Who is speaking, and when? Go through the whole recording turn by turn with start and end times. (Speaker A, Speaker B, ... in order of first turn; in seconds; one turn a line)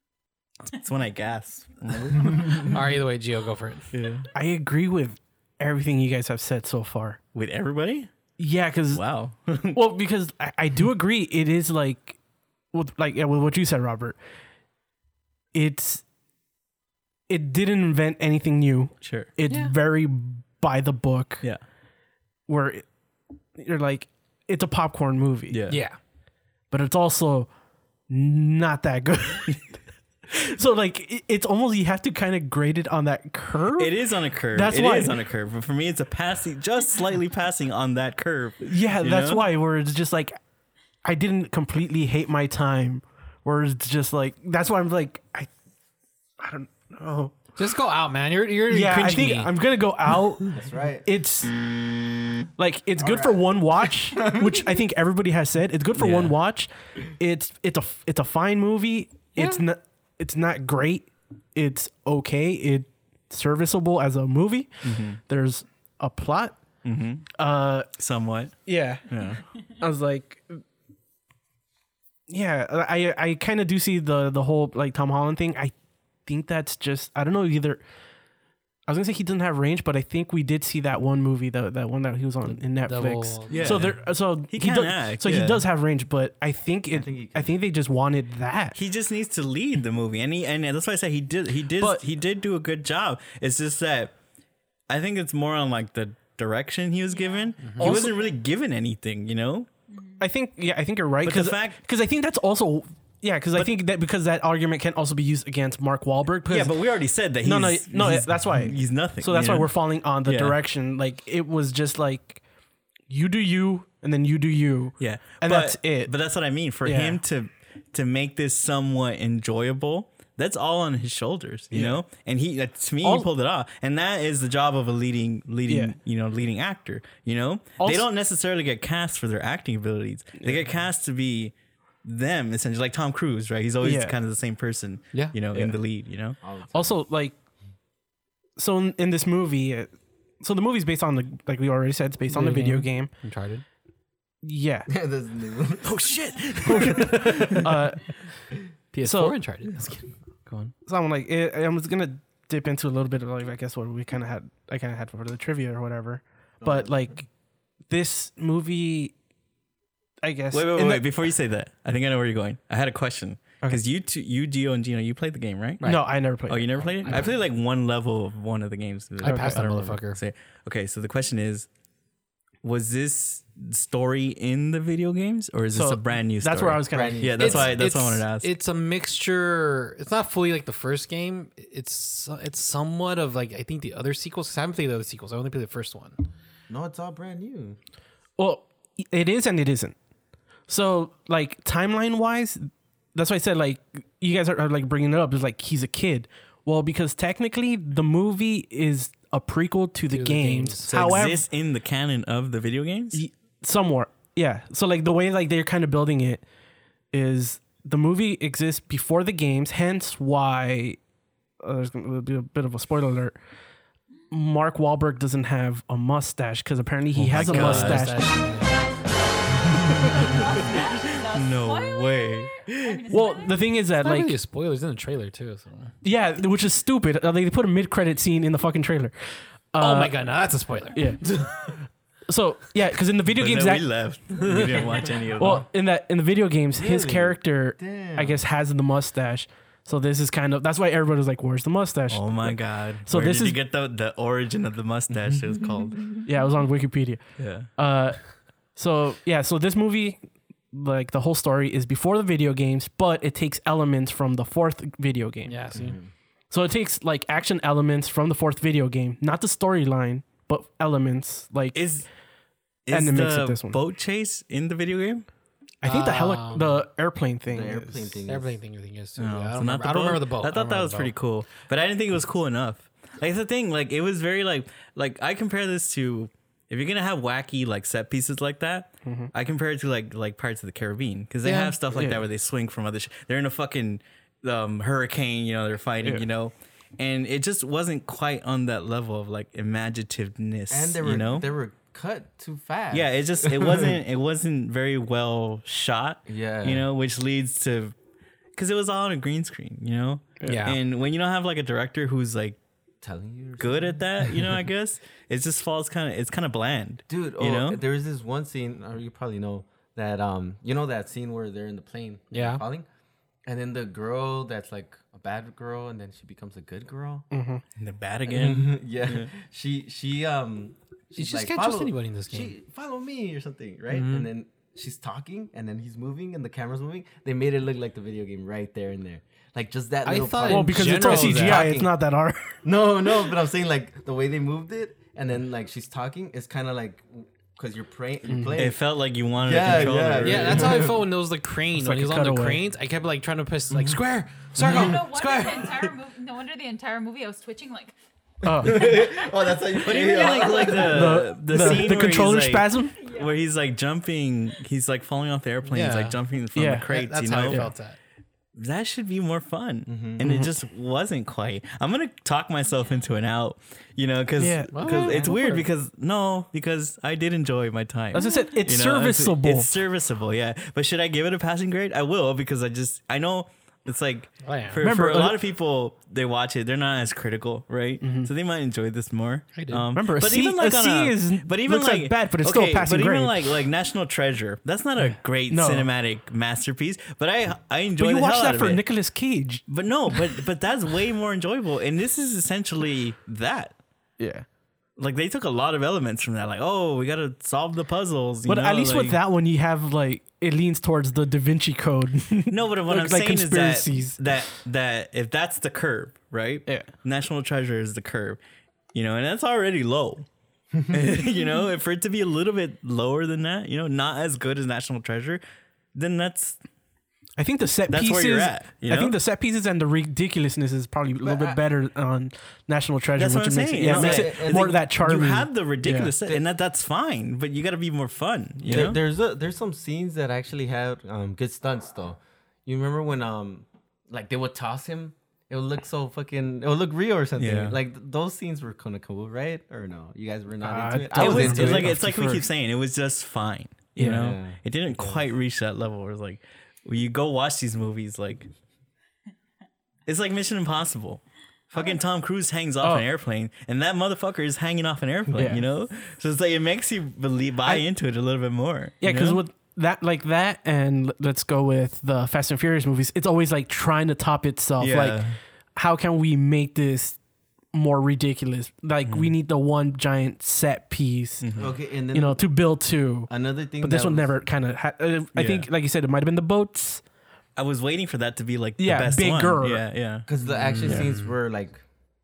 Speaker A: 0.7-2.8
Speaker B: 2.2-3.9
Speaker A: 3.9-4.3
Speaker C: 4.3-7.2
Speaker A: 7.3-8.1
Speaker C: 8.4-9.1
Speaker A: 8.9-9.8
Speaker C: 9.7-12.2
Speaker C: 12.7-14.2
Speaker C: 15.5-16.0
Speaker C: 17.3-21.5
Speaker A: 19.0-19.3
Speaker B: 19.5-19.7
Speaker C: 22.5-22.9
Speaker C: 23.6-25.6
Speaker A: 25.5-25.8
Speaker B: 25.7-26.0
Speaker C: 26.7-27.5
Speaker C: 28.1-29.6
Speaker C: 30.3-34.0
Speaker A: 33.7-39.5
Speaker C: 34.5-35.2
Speaker C: 38.7-40.4
Speaker C: 41.0-45.5
Speaker C: 46.4-47.4
Speaker B: 47.6-49.5
Speaker C: 48.7-51.5
Speaker D: 50.5-51.1
Speaker C: 52.6-66.6
Speaker D: 53.0-54.6
Speaker A: 56.0-56.4
Speaker B: 59.4-59.6
Speaker A: 64.8-65.2
Speaker A: 66.8-67.3
Speaker C: 67.4-67.9
Speaker A: 68.0-68.6
Speaker C: 68.7-69.1
Speaker A: 69.1-69.4
Speaker C: 69.8-70.6
Speaker C: 72.3-75.7
Speaker C: 76.3-77.8
Speaker C: 78.9-88.8
Speaker B: 82.5-83.9
Speaker A: 83.5-85.7
Speaker D: 86.9-87.6
Speaker A: 88.8-94.1
Speaker C: 91.8-92.0
Speaker A: 94.9-99.7
Speaker E: 97.1-97.7
Speaker B: 97.6-98.0
Speaker C: 97.8-98.3
Speaker C: 100.2-106.8
Speaker A: 101.2-101.8
Speaker A: 106.5-110.6
Speaker C: 107.4-112.4
Speaker C: 113.1-116.1
Speaker A: 115.0-136.4
Speaker C: 116.8-117.2
Speaker C: 121.7-122.0
Speaker C: 123.0-123.3
Speaker C: 125.7-126.0
Speaker C: 127.8-128.1
Speaker C: 133.8-134.2
Speaker D: 136.4-137.0
Speaker C: 136.7-137.3
Speaker C: 138.6-143.1
Speaker B: 142.3-143.6
Speaker C: 144.4-144.9
Speaker D: 144.9-146.0
Speaker A: 145.8-147.6
Speaker C: 146.6-148.2
Speaker B: 148.9-150.7
Speaker C: 149.0-149.4
Speaker C: 150.9-157.3
Speaker D: 156.6-157.1
Speaker C: 157.9-159.1
Speaker C: 160.2-161.0
Speaker A: 160.5-165.8
Speaker C: 165.8-167.2
Speaker A: 166.4-171.7
Speaker B: 167.1-167.3
Speaker B: 169.2-170.2
Speaker C: 169.2-169.6
Speaker A: 172.6-178.5
Speaker C: 175.7-177.3
Speaker D: 176.9-177.8
Speaker B: 177.4-186.2
Speaker D: 186.7-187.8
Speaker C: 188.4-190.0
Speaker C: 190.7-201.5
Speaker B: 200.1-200.9
Speaker A: 200.8-203.2
Speaker C: 203.1-206.4
Speaker C: 207.1-211.0
Speaker C: 211.6-213.4
Speaker C: 214.3-218.4
Speaker A: 217.1-218.2
Speaker B: 217.3-218.8
Speaker A: 219.7-223.2
Speaker E: 220.2-223.7
Speaker C: 223.1-224.3
Speaker B: 223.9-225.9
Speaker C: 226.0-230.2
Speaker B: 229.8-231.7
Speaker C: 230.9-231.6
Speaker C: 232.3-233.9
Speaker A: 233.4-235.7
Speaker B: 234.4-235.1
Speaker C: 235.4-243.6
Speaker D: 236.8-238.4
Speaker A: 242.1-246.1
Speaker C: 246.2-250.2
Speaker A: 247.4-247.7
Speaker C: 250.7-255.6
Speaker B: 255.5-256.0
Speaker D: 255.8-256.1
Speaker C: 256.5-261.8
Speaker A: 261.7-262.1
Speaker A: 262.9-265.3
Speaker C: 262.9-263.8
Speaker C: 265.8-268.2
Speaker B: 265.9-266.8
Speaker D: 267.5-268.6
Speaker B: 268.3-271.1
Speaker A: 269.2-291.5
Speaker C: 279.1-279.3
Speaker B: 281.4-281.8
Speaker C: 281.9-282.2
Speaker D: 290.7-294.0
Speaker A: 292.9-297.9
Speaker D: 296.3-296.9
Speaker A: 298.6-302.6
Speaker B: 300.4-300.8
Speaker D: 303.0-304.0
Speaker A: 303.6-307.8
Speaker D: 307.1-312.9
Speaker B: 312.3-312.6
Speaker D: 313.5-317.3
Speaker C: 317.3-317.6
Speaker A: 317.8-319.3
Speaker D: 318.3-331.9
Speaker B: 321.2-322.5
Speaker B: 323.9-324.3
Speaker B: 330.1-331.8
Speaker C: 330.5-332.6
Speaker D: 332.6-338.8
Speaker C: 338.3-338.6
Speaker A: 338.6-340.9
Speaker D: 339.4-341.1
Speaker B: 340.2-345.9
Speaker C: 341.8-342.6
Speaker D: 344.6-345.0
Speaker E: 344.6-348.0
Speaker C: 348.4-349.0
Speaker D: 348.5-351.1
Speaker A: 349.8-357.7
Speaker C: 350.8-353.0
Speaker E: 353.0-353.4
Speaker B: 355.7-356.2
Speaker C: 356.6-356.9
Speaker B: 356.9-358.0
Speaker C: 357.5-357.7
Speaker A: 358.6-388.8
Speaker D: 359.9-360.2
Speaker C: 360.2-360.5
Speaker C: 364.4-365.0
Speaker B: 364.7-365.6
Speaker D: 364.9-365.3
Speaker C: 368.1-369.7
Speaker B: 374.4-374.8
Speaker C: 374.8-375.4
Speaker C: 378.0-378.3
Speaker B: 379.6-379.9
Speaker C: 379.9-383.6
Speaker C: 385.0-385.9
Speaker C: 388.0-390.4
Speaker A: 389.7-393.8
Speaker C: 394.2-394.4
Speaker A: 395.0-399.2
Speaker C: 398.5-404.4
Speaker A: 402.5-408.4
Speaker A: 408.9-410.3
Speaker A: 410.9-415.4
Speaker A: 415.9-416.6
Speaker C: 417.4-426.1
Speaker A: 417.9-419.2
Speaker D: 421.2-421.6
Speaker A: 423.2-429.0
Speaker D: 423.8-424.8
Speaker D: 428.6-441.9
Speaker A: 437.4-437.8
Speaker C: 440.6-442.5
Speaker A: 441.1-448.5
Speaker C: 444.0-444.4
Speaker D: 444.0-445.2
Speaker A: 450.1-459.4
Speaker C: 452.8-453.1
Speaker C: 455.4-455.6
Speaker C: 459.0-465.2
Speaker A: 464.8-465.4
Speaker C: 465.8-467.2
Speaker C: 467.7-471.5
Speaker A: 469.1-469.3
Speaker A: 471.4-471.8
Speaker D: 471.6-472.4
Speaker C: 472.1-477.0
Speaker D: 473.3-474.4
Speaker A: 475.3-475.7
Speaker A: 477.6-480.3
Speaker C: 478.8-479.8
Speaker D: 480.3-481.8
Speaker B: 480.4-481.3
Speaker A: 480.8-481.2